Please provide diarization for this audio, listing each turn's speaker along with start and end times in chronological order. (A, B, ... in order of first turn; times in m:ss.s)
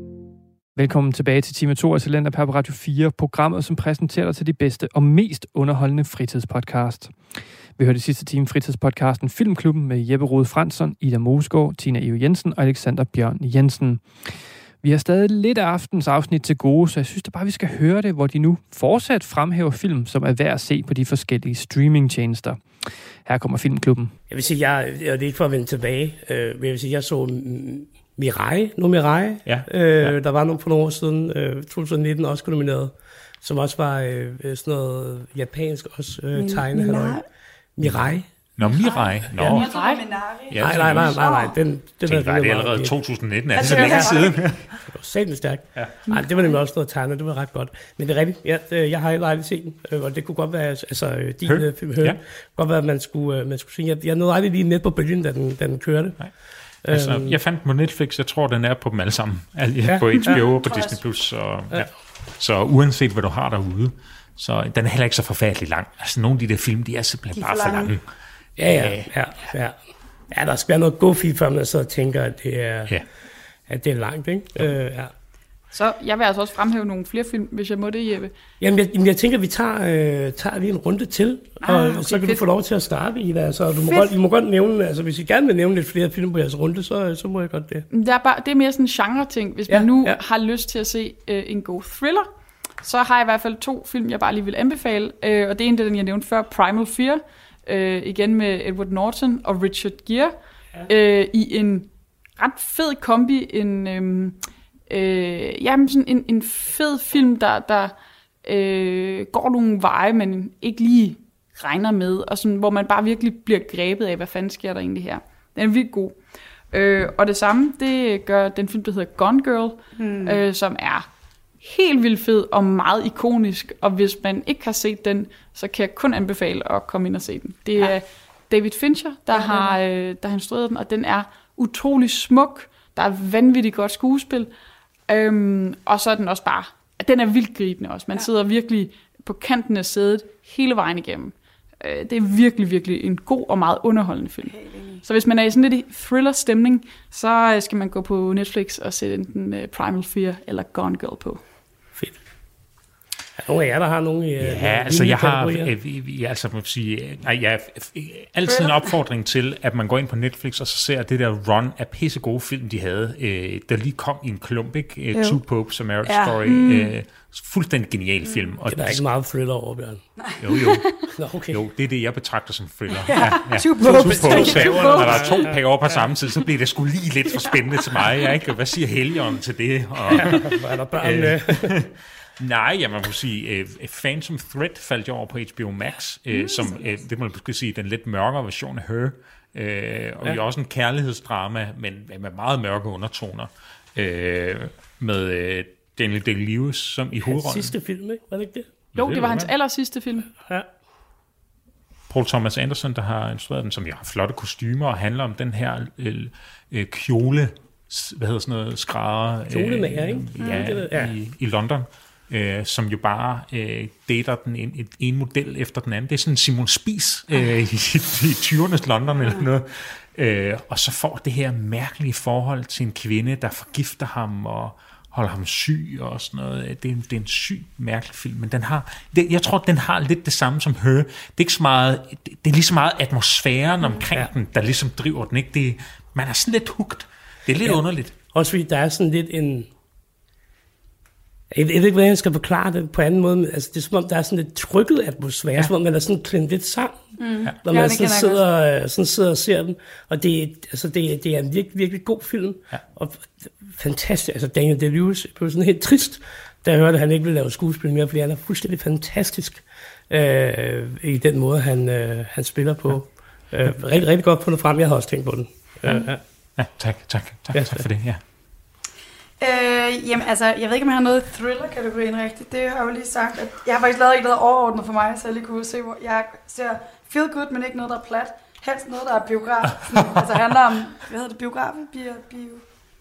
0:00.8-0:07.2 A
0:07.8-0:22.6 A
0:23.2-0:24.2 A
0:24.3-0:37.2 B
0:29.5-0:30.2 C
0:36.4-0:37.2 D
0:37.8-0:38.3 B
0:37.8-0:39.7 C
0:38.7-0:41.6 D
0:39.5-0:40.0 E
0:40.5-0:41.2 C
0:40.6-0:43.0 B
0:42.1-0:44.8 C
0:43.5-0:44.5 D
0:43.6-0:43.9 E
0:44.9-0:56.2 B
0:51.5-0:52.2 C
0:56.8-0:57.4 B
0:56.9-1:08.0 C
0:59.8-1:00.4 B
1:00.2-1:01.0 D
1:07.3-1:08.0 D
1:08.6-1:09.8 B
1:08.7-1:09.1 C
1:10.3-1:13.0 B
1:13.7-1:15.1 B
1:15.7-1:18.3 E
1:18.6-1:27.9 B
1:21.6-1:22.4 E
1:27.9-1:32.3 E
1:29.7-1:30.2 B
1:32.8-1:41.9 E
1:42.4-1:56.2 E
1:56.7-2:01.1 E
2:00.0-2:00.4 D
2:01.6-2:14.5 E
2:09.3-2:09.8 D
2:15.1-2:31.4 E
2:24.5-2:25.0 D
2:33.4-2:35.7 B
2:34.4-2:49.0 C
2:38.5-2:38.9 D
2:45.1-2:45.4 D
2:46.0-2:47.0 D
2:48.7-2:50.0 B
2:50.4-3:17.7 C
2:51.1-2:51.6 B
2:53.0-2:55.4 D
2:53.8-2:55.7 B
3:00.1-3:01.8 B
3:17.3-3:18.7 B
3:19.0-3:19.5 C
3:19.0-3:20.3 E
3:20.4-3:20.7 B
3:22.1-3:58.2 C
3:29.5-3:31.2 B
3:57.6-3:59.7 B
4:01.5-4:07.0 B
4:07.2-4:08.4 D
4:07.6-4:26.2 B
4:26.6-4:28.2 C
4:27.5-4:27.9 B
4:29.4-4:42.6 D